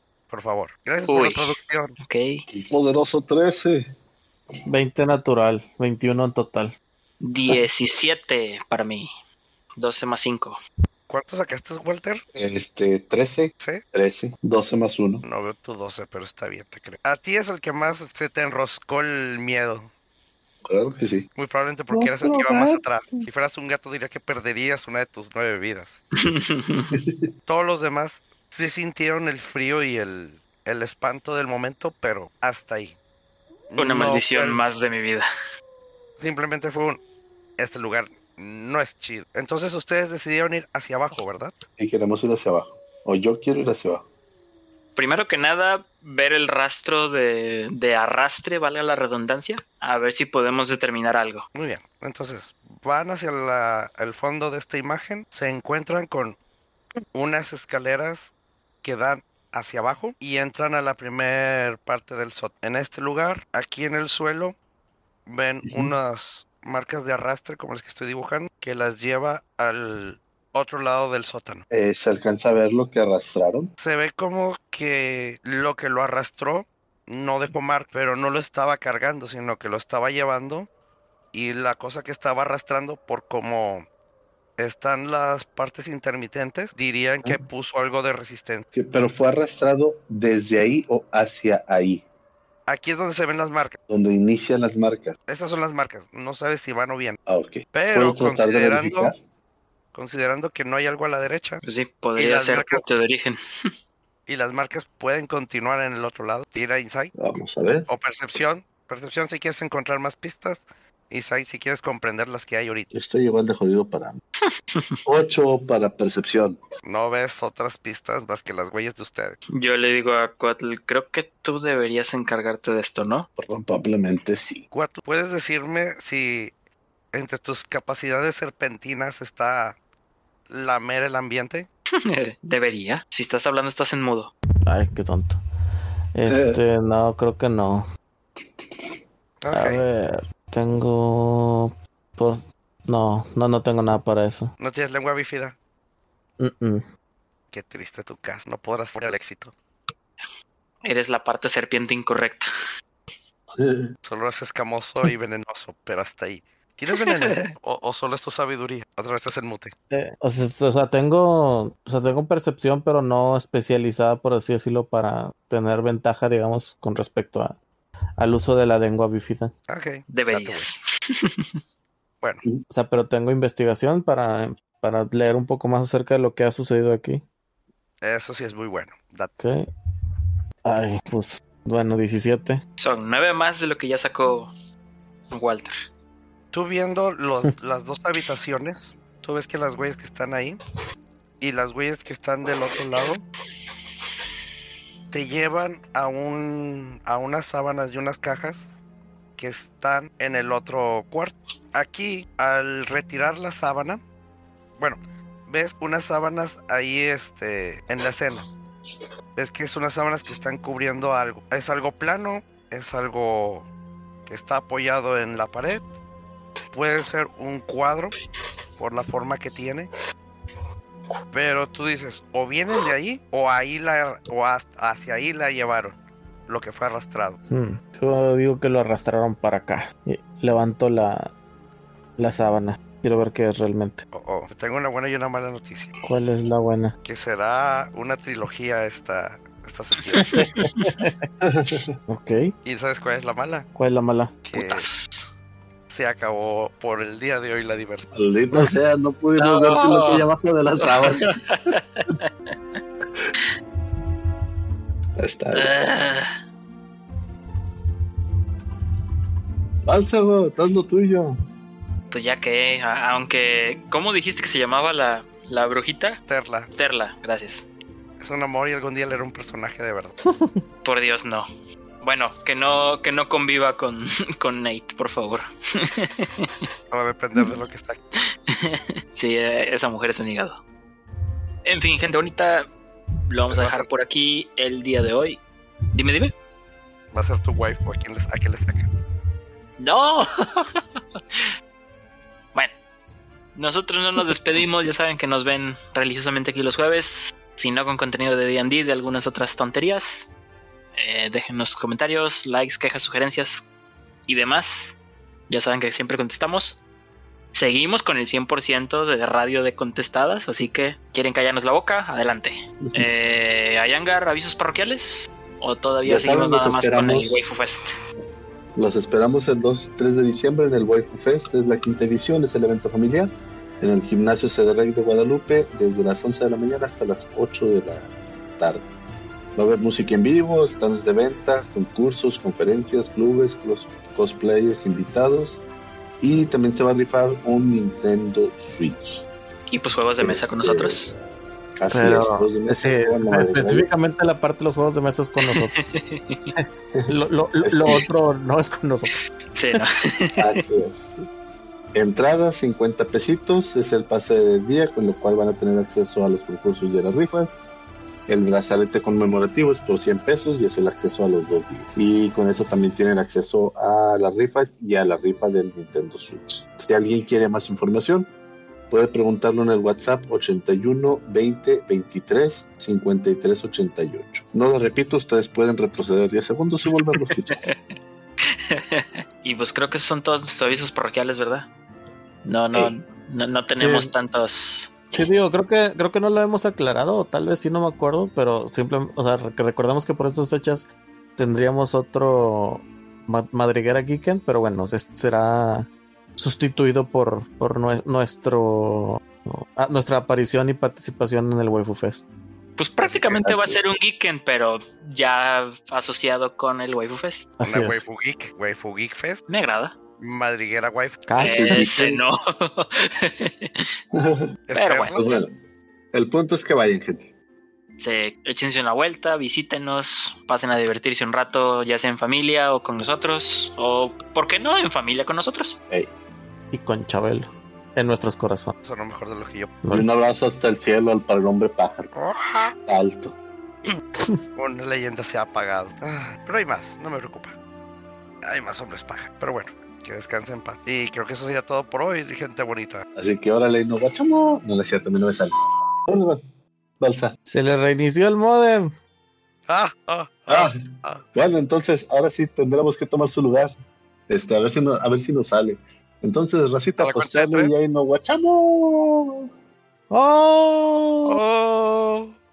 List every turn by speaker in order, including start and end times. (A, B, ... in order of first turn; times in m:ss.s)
0:00.3-0:02.0 A
0:01.1-0:01.4 B
0:02.0-0:02.4 B
0:02.5-0:03.9 C
0:04.7-0:06.7 D
0:07.2-0:09.1 B
0:09.8-0:10.6 B
0:11.1-0:12.2 A
0:12.3-0:15.2 C
0:15.2-0:19.9 A
0:20.7-0:21.3 C
0:21.4-0:26.0 A
0:21.9-0:23.3 C
0:26.2-0:27.0 B
0:26.9-0:27.3 C
0:27.5-0:33.0 A
0:33.7-0:34.6 A
0:33.8-0:35.3 B
0:36.2-0:37.0 A
0:37.6-0:41.5 A
0:41.8-0:44.0 C
0:45.0-0:51.5 B
0:51.6-0:56.4 A
0:57.1-0:58.3 A
0:58.8-1:04.6 A
1:05.3-1:11.6 A
1:11.7-1:13.7 C
1:13.8-1:20.7 A
1:21.3-1:23.9 A
1:24.6-1:28.7 A
1:28.7-1:32.0 C
1:32.7-1:33.8 A
1:33.9-1:35.2 C
1:35.3-1:37.2 A
1:37.3-1:39.2 C
1:37.7-1:39.1 A
1:39.9-1:41.6 A
1:41.6-1:43.4 B
1:42.2-1:42.8 A
1:44.3-1:47.1 A
1:47.2-1:47.9 C
1:47.9-1:52.9 A
1:52.9-1:54.2 C
1:55.0-1:56.6 C
1:56.8-1:59.4 A
1:59.5-2:03.3 B
2:03.4-2:04.6 C
2:04.7-2:06.5 A
2:07.1-2:09.8 A
2:10.5-2:11.7 A
2:12.0-2:14.3 B
2:14.7-2:15.4 D
2:16.2-2:17.9 D
2:16.3-2:16.6 C
2:19.4-2:19.8 A
2:19.5-2:24.5 D
2:24.6-2:25.6 A
2:26.4-2:26.8 D
2:27.5-2:29.5 A
2:30.8-2:32.5 B
2:33.6-2:33.9 C
2:34.0-2:39.7 A
2:39.9-2:47.6 D
2:48.2-2:49.5 D
2:49.7-2:50.7 A
2:50.1-2:51.5 B
2:52.7-2:57.2 D
2:58.0-2:59.3 A
2:59.4-2:59.7 D
3:00.6-3:02.6 D
3:02.8-3:04.5 B
3:05.3-3:05.7 B
3:06.5-3:10.6 A
3:11.4-3:13.2 A
3:15.1-3:18.7 A
3:19.4-3:24.0 A
3:24.8-3:28.4 A
3:29.4-3:33.7 A
3:34.3-3:35.8 A
3:36.7-3:38.1 A
3:38.8-3:39.9 A
3:41.3-3:46.0 A
3:46.5-3:47.4 A
3:47.5-3:51.3 D
3:52.2-3:54.0 D
3:54.1-3:55.9 A
3:56.0-3:57.0 D
3:57.0-4:00.5 A
4:00.2-4:00.9 B
4:00.6-4:01.3 D
4:01.4-4:01.9 C
4:02.1-4:02.5 D
4:02.6-4:03.7 A
4:03.8-4:04.3 D
4:04.4-4:04.9 A
4:04.5-4:05.3 B
4:05.9-4:08.1 A
4:08.1-4:11.3 C
4:09.4-4:10.3 B
4:10.8-4:12.3 B
4:15.2-4:15.9 C
4:15.5-4:16.3 B
4:19.8-4:21.4 C
4:22.1-4:26.2 B
4:26.3-4:26.7 A
4:26.8-4:27.7 B
4:28.2-4:30.1 A
4:30.2-4:30.6 D
4:30.8-4:31.5 B
4:32.0-4:36.7 B
4:36.9-4:38.0 A
4:38.5-4:40.6 B
4:41.6-4:42.7 B
4:43.3-4:45.4 B
4:43.5-4:43.9 A
4:45.9-4:46.3 B
4:47.1-4:49.0 A
4:49.8-4:51.4 B
4:53.6-5:00.3 B
5:01.0-5:03.7 B
5:04.3-5:05.0 B
5:05.5-5:06.8 B
5:07.5-5:17.9 B
5:16.1-5:17.4 C
5:18.8-5:28.8 C
5:29.6-5:35.6 C
5:36.2-5:39.3 C
5:39.7-5:41.1 B
5:40.2-5:41.1 C
5:41.8-5:43.9 C
5:41.9-5:45.7 D
5:45.4-5:46.5 B
5:46.9-5:48.1 C
5:47.1-5:49.2 D
5:49.5-5:50.6 B
5:50.4-5:51.1 C
5:52.0-5:57.6 C
5:58.3-6:08.3 C
6:08.9-6:17.7 C
6:17.1-6:17.8 B
6:18.5-6:21.7 B
6:22.4-6:25.0 B
6:23.8-6:24.1 D
6:25.1-6:30.9 D
6:31.4-6:42.2 D
6:42.8-6:47.5 B
6:43.0-6:43.8 C
6:47.6-6:48.0 D
6:47.6-6:49.4 A
6:49.5-6:50.0 B
6:50.2-6:51.3 A
6:51.3-6:51.9 D
6:51.4-6:52.3 C
6:51.4-6:53.9 B
6:54.1-6:54.5 C
6:54.7-6:55.2 A
6:54.7-6:55.2 B
6:55.2-6:55.5 C
6:56.1-6:57.3 C
6:58.0-7:05.8 B
7:06.7-7:08.8 D
7:08.8-7:09.7 A
7:09.9-7:12.1 C
7:12.1-7:12.8 A
7:12.9-7:13.4 C
7:14.6-7:17.6 A
7:18.4-7:23.0 A
7:23.2-7:25.5 C
7:26.1-7:26.4 C
7:27.0-7:27.4 C
7:27.5-7:28.9 D
7:29.7-7:31.3 A
7:30.5-7:30.8 C
7:31.4-7:33.7 C
7:34.3-7:39.5 C
7:37.0-7:37.7 A
7:40.1-7:41.4 D
7:41.3-7:42.4 A